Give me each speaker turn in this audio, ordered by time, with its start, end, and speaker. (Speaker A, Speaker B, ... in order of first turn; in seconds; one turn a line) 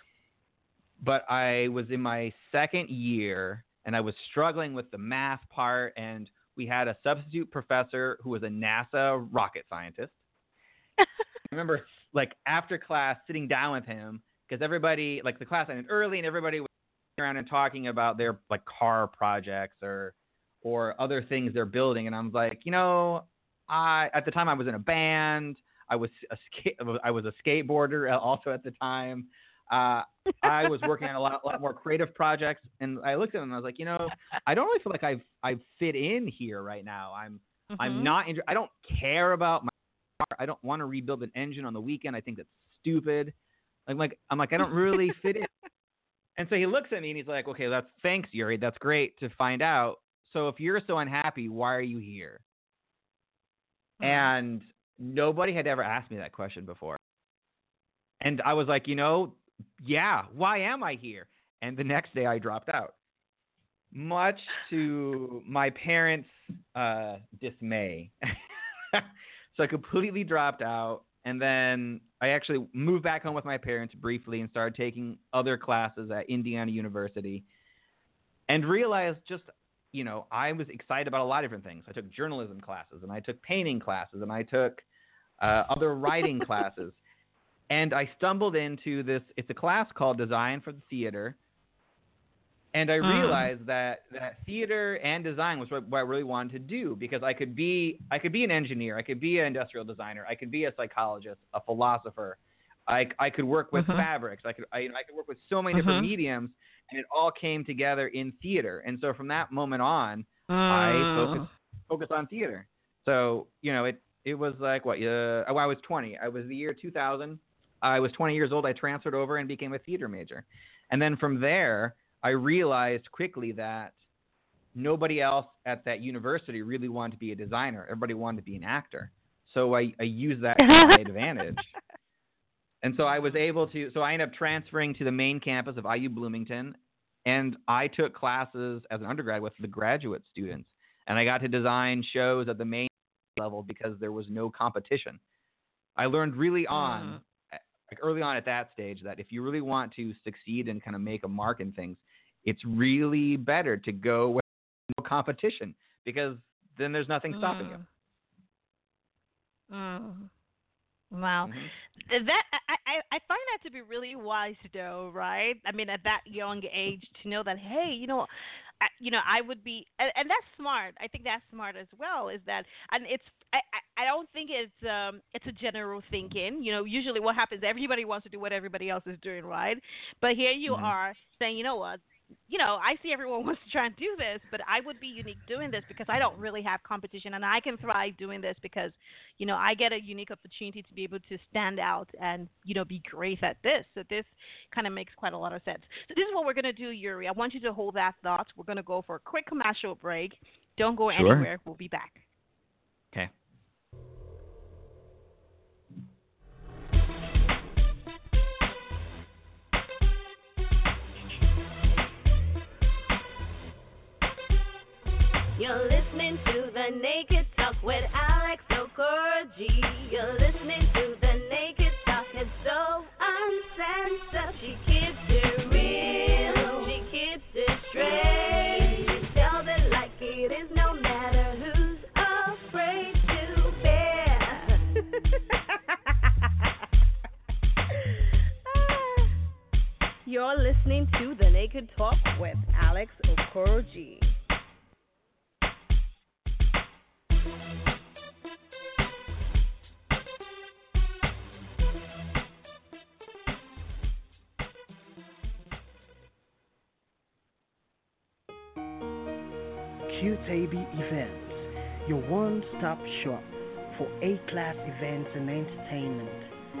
Speaker A: 1.0-10.2
Speaker A: 11.5-43.3
Speaker B: 37.7-38.1
Speaker A: 43.9-45.5
Speaker A: 46.4-52.4
Speaker B: 54.0-54.3
Speaker A: 54.0-57.0
Speaker A: 58.2-62.9
Speaker A: 63.9-68.3
Speaker A: 68.9-77.4
Speaker A: 78.5-84.8
Speaker A: 85.4-87.0
Speaker A: 87.7-91.4
Speaker A: 92.7-123.9
Speaker B: 93.0-93.5
Speaker B: 103.7-104.0
Speaker B: 105.7-106.1
Speaker B: 110.5-111.5
Speaker A: 124.7-131.7
Speaker B: 130.6-131.0
Speaker A: 132.8-145.2
Speaker A: 146.0-157.8
Speaker B: 146.7-147.2
Speaker B: 157.3-157.8
Speaker B: 159.7-160.3
Speaker B: 161.1-168.3
Speaker A: 161.4-161.7
Speaker B: 168.8-202.2
Speaker A: 180.7-180.9
Speaker A: 201.1-201.4
Speaker C: 215.6-234.8
Speaker C: 240.3-244.3
Speaker D: 260.1-266.5